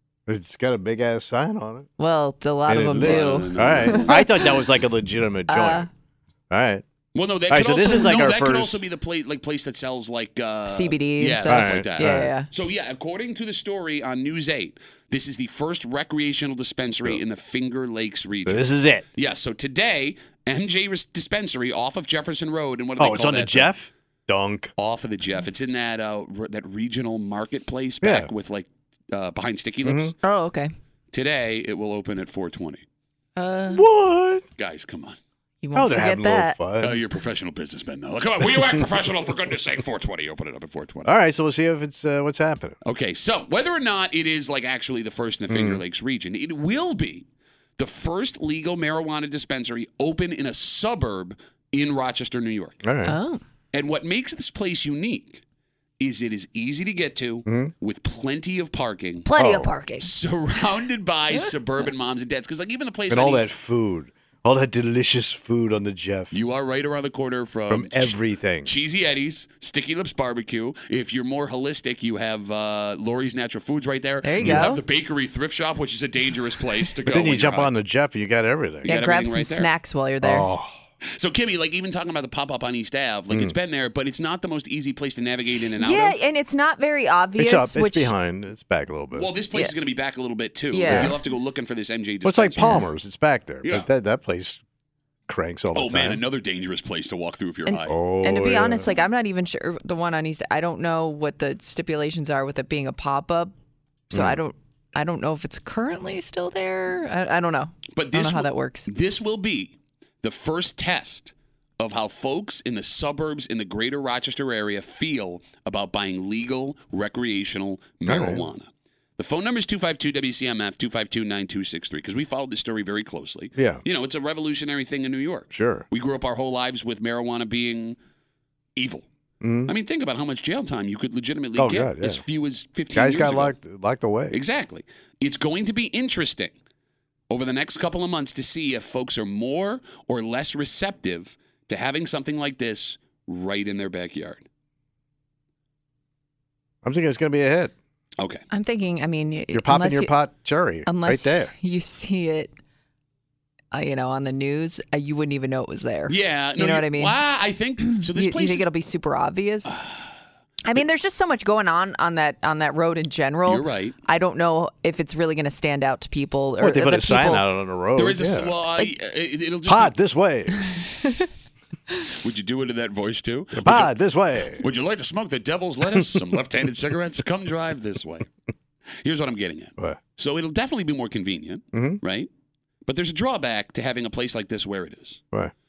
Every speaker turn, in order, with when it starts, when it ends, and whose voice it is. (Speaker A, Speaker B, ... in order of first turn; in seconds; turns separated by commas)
Speaker A: 0.3-1.9, Speaker B: 2.0-4.5, Speaker A: 2.7-5.9, Speaker C: 2.9-4.6, Speaker B: 5.5-5.9, Speaker A: 6.5-6.8, Speaker C: 7.1-23.7, Speaker A: 7.5-8.8, Speaker B: 10.7-12.5, Speaker A: 11.4-12.3, Speaker A: 18.4-19.0, Speaker A: 23.0-24.7, Speaker C: 24.8-30.1, Speaker A: 28.0-28.3, Speaker A: 29.8-30.1, Speaker B: 30.2-30.7, Speaker C: 31.1-32.8, Speaker B: 33.4-33.8, Speaker A: 33.7-34.4, Speaker C: 34.6-35.2, Speaker B: 35.6-36.6, Speaker A: 35.7-37.0, Speaker C: 36.8-41.1, Speaker A: 41.0-42.8, Speaker C: 42.8-47.2, Speaker A: 45.5-45.8, Speaker C: 47.8-52.8, Speaker A: 52.8-53.2, Speaker B: 53.0-53.4, Speaker C: 53.7-55.4, Speaker C: 56.0-59.3, Speaker A: 57.5-57.7, Speaker B: 59.2-60.1, Speaker A: 59.4-59.7, Speaker C: 60.0-63.5, Speaker A: 63.1-66.3, Speaker C: 66.3-77.7, Speaker A: 67.7-68.7, Speaker B: 74.2-74.8, Speaker A: 77.0-78.9, Speaker B: 78.8-80.5, Speaker C: 78.8-79.7, Speaker A: 80.2-80.7, Speaker C: 81.1-86.2, Speaker B: 85.8-88.1, Speaker A: 87.4-89.3, Speaker C: 89.1-92.8, Speaker B: 90.7-91.2, Speaker A: 90.8-91.2, Speaker A: 92.2-94.6, Speaker B: 92.6-92.8, Speaker A: 95.3-96.2, Speaker C: 95.7-97.9, Speaker B: 97.7-103.5, Speaker A: 97.9-98.8, Speaker B: 104.1-108.9, Speaker A: 104.1-104.4, Speaker C: 107.9-128.0, Speaker A: 118.0-118.4, Speaker A: 123.5-123.8, Speaker A: 125.5-125.8, Speaker C: 128.8-129.1, Speaker A: 129.4-129.7, Speaker C: 129.7-133.5, Speaker A: 131.6-132.2, Speaker A: 132.9-134.4, Speaker C: 134.3-136.5, Speaker C: 137.3-144.4, Speaker A: 146.8-147.7, Speaker C: 148.2-148.4, Speaker B: 148.5-150.1, Speaker A: 149.5-151.5, Speaker B: 150.8-152.5, Speaker B: 153.7-157.2, Speaker C: 156.1-158.7, Speaker B: 157.9-159.8, Speaker C: 159.7-160.0, Speaker B: 160.6-167.5, Speaker C: 163.4-164.0, Speaker A: 166.6-168.5, Speaker C: 167.9-169.9, Speaker A: 169.7-170.8, Speaker C: 172.2-174.0, Speaker A: 173.6-174.6, Speaker C: 174.6-178.3, Speaker C: 179.0-182.3, Speaker A: 181.7-182.0, Speaker C: 182.8-185.2